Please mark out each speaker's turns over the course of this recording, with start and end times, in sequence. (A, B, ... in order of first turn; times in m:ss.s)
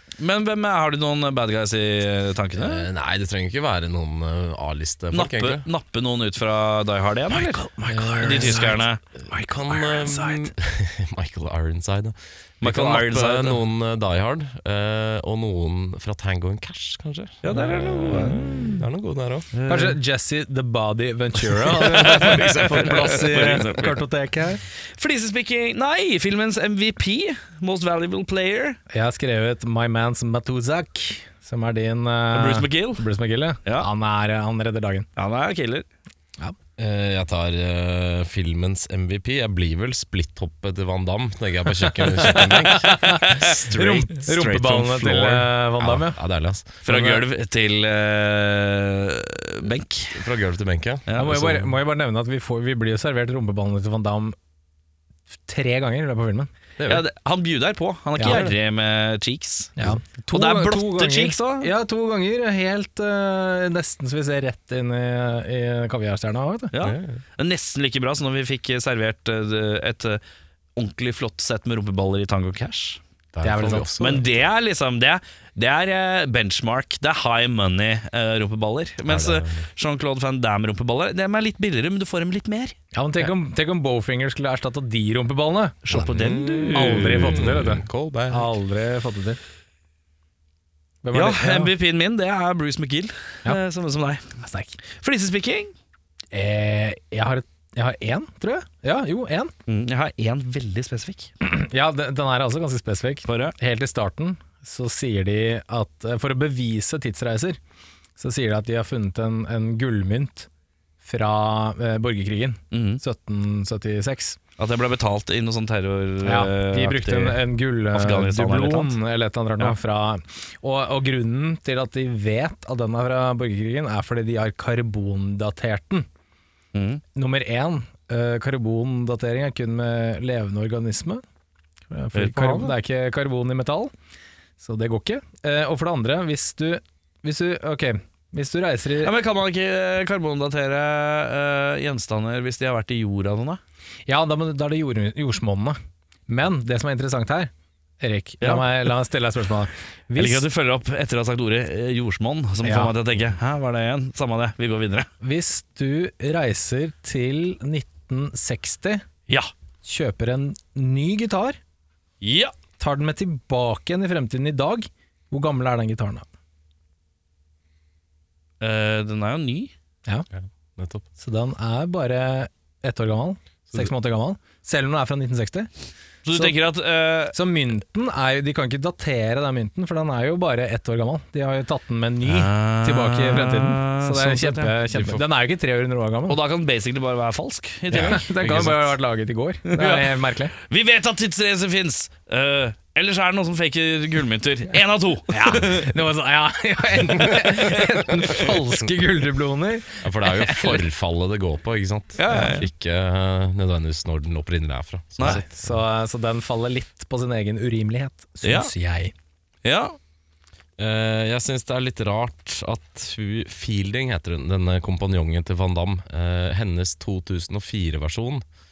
0:00.2-0:02.9 A
0:02.6-0:05.6 B
0:05.1-0:07.7 A
0:07.3-0:10.5 C
0:07.8-0:19.6 B
0:08.2-0:09.0 A
0:12.6-0:13.6 A
0:17.4-0:18.4 A
0:19.5-0:20.0 A
0:19.7-0:24.6 C
0:21.9-0:24.0 A
0:21.9-0:23.6 B
0:25.0-0:28.8 A
0:28.9-0:35.1 C
0:32.3-0:33.1 A
0:35.2-0:35.9 A
0:36.8-0:46.8 B
0:42.0-0:46.2 C
0:42.8-0:45.1 A
0:46.8-0:47.2 C
0:46.8-0:50.2 A
0:50.1-0:51.7 B
0:51.1-0:51.4 A
0:51.2-0:54.4 C
0:55.5-0:56.5 C
0:56.8-0:57.0 B
0:56.9-0:59.7 A
0:58.2-0:58.5 C
0:58.2-0:58.6 B
0:59.8-1:06.7 C
1:00.3-1:01.7 A
1:06.7-1:10.2 A
1:06.8-1:07.2 B
1:10.8-1:13.0 A
1:13.3-1:14.2 B
1:13.4-1:14.0 C
1:14.0-1:22.8 A
1:19.1-1:19.7 B
1:22.9-1:26.0 C
1:25.8-1:27.5 A
1:25.9-1:28.5 B
1:26.7-1:29.4 C
1:31.0-1:31.7 C
1:31.1-1:35.7 A
1:34.4-1:34.8 C
1:36.3-1:39.5 C
1:39.7-1:41.3 A
1:41.4-1:47.6 C
1:43.3-1:43.6 A
1:48.2-1:50.5 C
1:51.0-1:54.4 C
1:52.7-1:53.0 A
1:54.6-1:58.9 A
1:56.2-2:06.1 C
2:06.7-2:07.0 A
2:07.2-2:11.2 C
2:11.9-2:13.9 C
2:12.1-2:12.7 A
2:14.6-2:19.1 C
2:19.0-2:23.6 A
2:24.1-2:25.8 C
2:26.3-2:27.5 C
2:28.0-2:30.5 C
2:28.4-2:28.7 A
2:30.2-2:35.1 A
2:32.6-2:32.9 C
2:35.2-2:39.0 C
2:39.8-2:41.6 C
2:42.2-2:42.5 A
2:42.8-2:46.2 C
2:48.6-2:49.7 A
2:50.3-2:51.1 B
2:51.2-2:55.7 C
2:56.2-2:57.4 A
2:57.3-3:06.4 C
3:02.2-3:04.8 A
3:04.9-3:05.2 B
3:06.3-3:08.3 A
3:07.9-3:08.9 B
3:07.9-3:10.5 C
3:09.7-3:15.9 A
3:15.3-3:20.8 C
3:17.1-3:17.7 B
3:20.0-3:25.8 B
3:22.2-3:22.7 A
3:25.2-3:29.1 C
3:28.4-3:28.7 A
3:29.6-3:30.0 A
3:30.8-3:38.4 B